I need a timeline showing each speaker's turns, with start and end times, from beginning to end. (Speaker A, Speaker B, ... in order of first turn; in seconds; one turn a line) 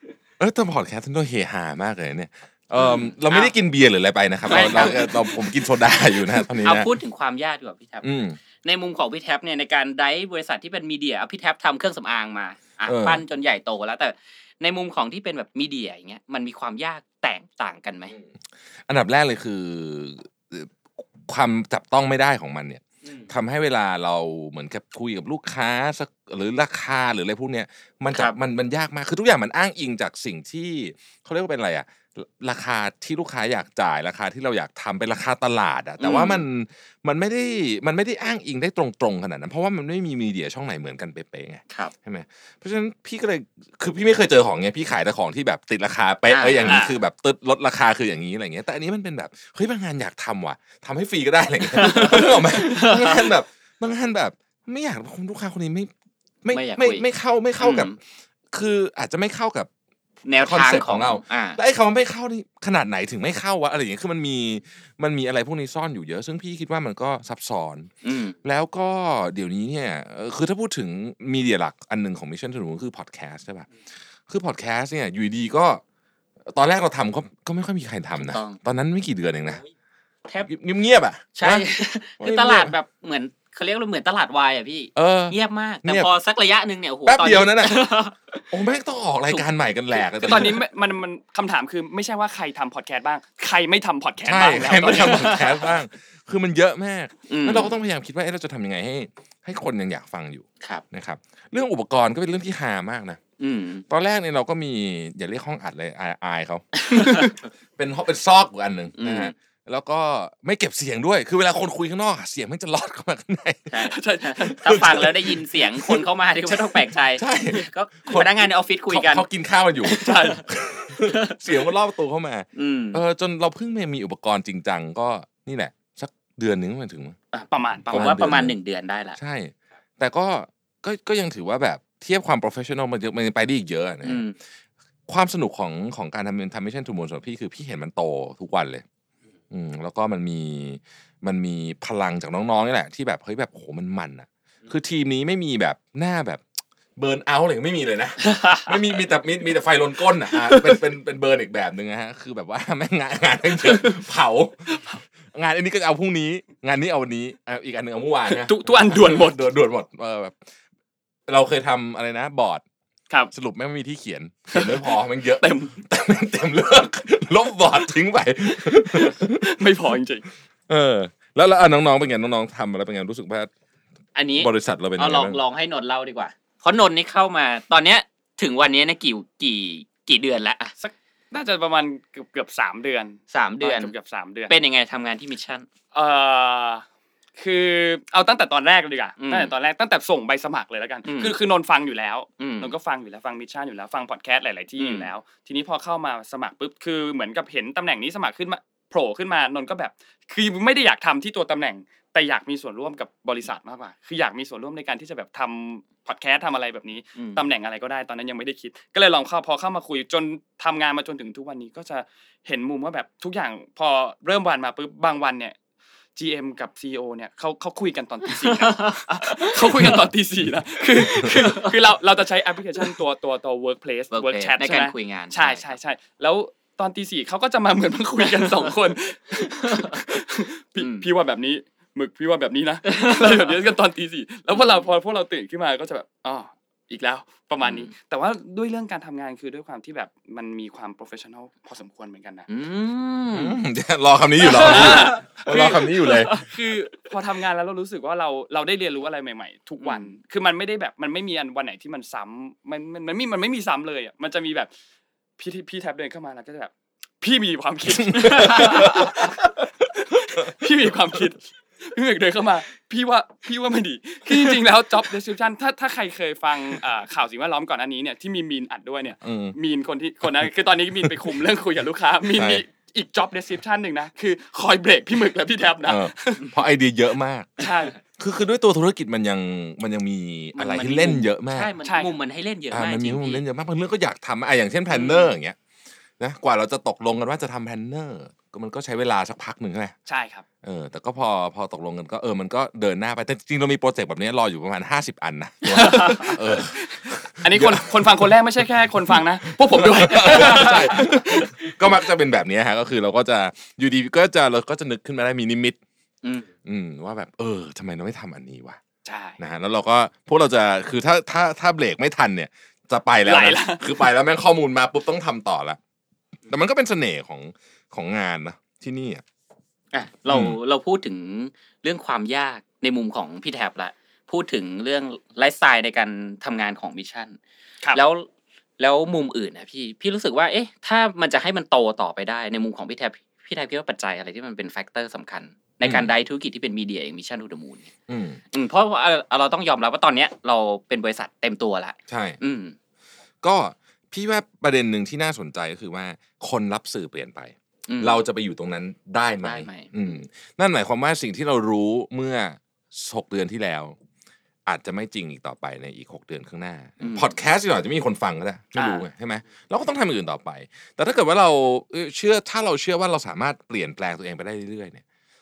Speaker A: 0.4-6.9
Speaker B: 2.8-3.5
Speaker B: 4.5-5.5
Speaker B: 6.4-8.1
Speaker A: 8.0-8.4
Speaker B: 8.6-18.2
Speaker A: 12.8-13.2
Speaker A: 18.9-55.9
Speaker B: 28.1-28.4
Speaker B: 36.0-36.4
Speaker B: 46.3-46.9
Speaker C: 46.7-46.9
Speaker B: 51.7-53.3
Speaker A: 56.4-58.0
Speaker B: 56.5-57.1
Speaker B: 57.6-58.0
Speaker A: 58.5-59.7
Speaker B: 60.3-61.6
Speaker A: 60.4-67.9
Speaker B: 68.0-68.4
Speaker A: 68.4-73.7
Speaker A: 74.3-75.8
Speaker A: 76.5-79.6
Speaker B: 78.2-78.6
Speaker A: 80.5-81.7
Speaker B: 81.3-88.4
Speaker A: 82.2-82.7
Speaker A: 85.0-86.1
Speaker A: 87.1-87.9
Speaker A: 88.5-90.6
Speaker B: 90.2-90.6
Speaker C: 90.2-95.7
Speaker A: 94.2-103.2
Speaker B: 97.3-97.8
Speaker B: 103.4-103.8
Speaker A: 103.9-113.7
Speaker B: 106.8-107.3
Speaker B: 109.0-109.3
Speaker B: 113.7-119.3
Speaker C: 113.9-114.8
Speaker A: 114.5-127.2
Speaker C: 119.9-120.4
Speaker B: 122.5-123.0
Speaker B: 127.3-129.2
Speaker C: 127.5-128.3
Speaker A: 127.9-128.6
Speaker A: 129.2-134.2
Speaker B: 134.0-134.3
Speaker A: 135.1-138.8
Speaker A: 139.5-146.4
Speaker A: 147.0-160.4
Speaker C: 153.6-153.9
Speaker C: 158.3-159.5
Speaker A: 161.3-162.6
Speaker A: 163.3-169.5
Speaker C: 164.5-165.8
Speaker C: 168.6-170.2
Speaker A: 170.7-173.5
Speaker B: 174.2-180.7
Speaker A: 174.4-175.4
Speaker C: 180.8-184.5
Speaker B: 183.3-183.9
Speaker B: 184.5-185.7
Speaker C: 185.9-186.8
Speaker C: 187.4-215.6
Speaker B: 189.2-189.5
Speaker B: 191.1-191.4
Speaker B: 192.4-192.7
Speaker B: 194.8-195.1
Speaker B: 207.2-207.4
Speaker C: 216.2-242.5
Speaker B: 218.4-220.0
Speaker B: 221.2-221.7
Speaker B: 224.1-225.7
Speaker B: 228.2-228.7
Speaker B: 229.7-230.0
Speaker B: 230.8-231.1
Speaker B: 232.9-233.5
Speaker B: 234.5-234.9
Speaker B: 237.6-237.9
Speaker B: 242.5-243.6
Speaker A: 243.3-246.4
Speaker C: 244.4-254.7
Speaker B: 249.8-250.1
Speaker C: 255.4-276.5
Speaker A: 257.9-261.2
Speaker A: 269.2-269.6
Speaker A: 271.0-271.3
Speaker A: 272.3-272.6
Speaker A: 275.8-281.7
Speaker C: 277.6-278.0
Speaker B: 280.6-283.4
Speaker C: 281.9-282.1
Speaker A: 282.7-285.6
Speaker B: 284.9-285.3
Speaker A: 286.2-289.9
Speaker C: 290.1-290.4
Speaker A: 290.6-298.4
Speaker C: 295.7-301.7
Speaker A: 299.1-305.8
Speaker A: 306.6-308.8
Speaker C: 309.1-309.4
Speaker A: 309.4-315.8
Speaker C: 313.3-314.1
Speaker A: 316.5-319.2
Speaker B: 319.9-327.4
Speaker A: 320.3-320.6
Speaker B: 327.9-328.3
Speaker B: 328.8-337.9
Speaker A: 335.8-336.1
Speaker A: 338.1-338.4
Speaker B: 338.5-342.8
Speaker A: 342.1-342.4
Speaker A: 343.4-354.0
Speaker B: 347.9-348.2
Speaker B: 349.4-350.2
Speaker A: 354.7-365.0
Speaker B: 357.0-357.3
Speaker C: 358.8-359.1